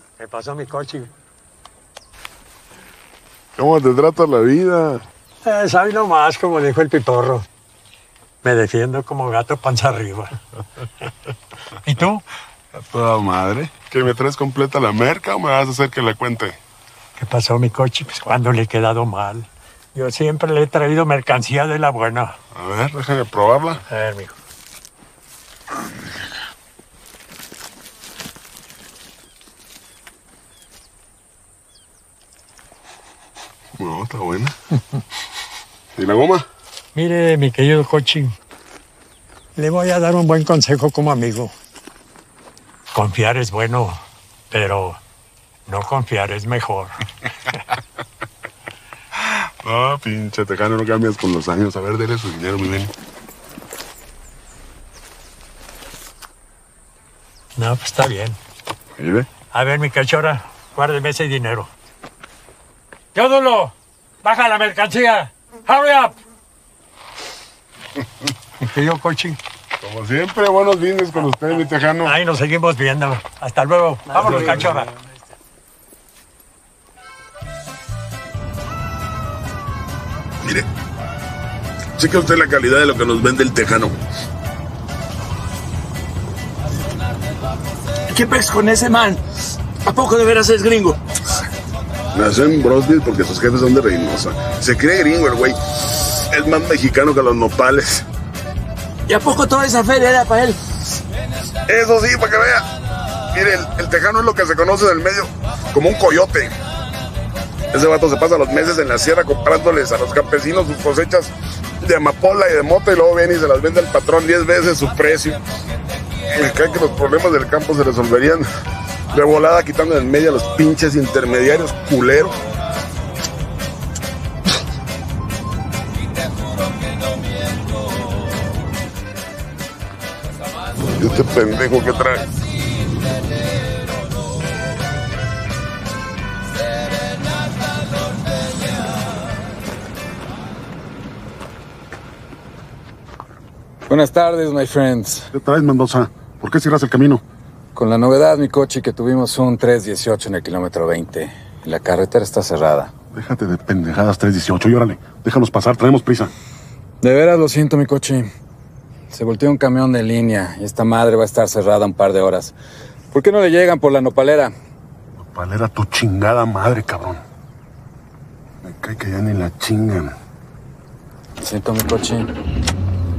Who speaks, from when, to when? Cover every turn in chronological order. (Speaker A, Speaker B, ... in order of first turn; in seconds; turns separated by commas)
Speaker A: 0.2-1.1, Speaker B: 3.6-5.0, Speaker A: 5.4-7.5, Speaker A: 8.4-10.4, Speaker A: 11.8-12.2, Speaker B: 12.8-16.6, Speaker A: 17.2-22.4, Speaker B: 22.5-23.8, Speaker A: 23.9-24.4, Speaker B: 33.8-34.5, Speaker B: 36.0-36.5, Speaker A: 37.0-38.4, Speaker A: 39.6-41.5, Speaker A: 42.9-45.0, Speaker A: 45.7-47.0, Speaker B: 49.2-52.9, Speaker A: 57.6-58.4, Speaker B: 59.0-59.3, Speaker A: 59.5-61.7, Speaker A: 63.1-66.2, Speaker A: 68.6-69.4, Speaker B: 69.8-72.1, Speaker A: 72.0-74.9, Speaker B: 74.4-74.7, Speaker B: 82.0-84.0, Speaker C: 88.1-89.2, Speaker C: 89.8-91.0, Speaker B: 92.1-98.0, Speaker C: 99.1-100.6, Speaker B: 101.7-102.7, Speaker B: 103.3-106.6, Speaker B: 107.7-115.4, Speaker B: 116.3-118.5, Speaker B: 119.1-122.4, Speaker B: 131.0-132.3, Speaker D: 143.9-145.3, Speaker B: 145.3-147.2, Speaker D: 147.8-152.9, Speaker B: 153.1-156.3, Speaker D: 157.0-158.3, Speaker D: 159.1-162.6, Speaker D: 163.1-164.5, Speaker B: 165.2-167.2, Speaker B: 168.6-170.2, Speaker D: 171.4-172.3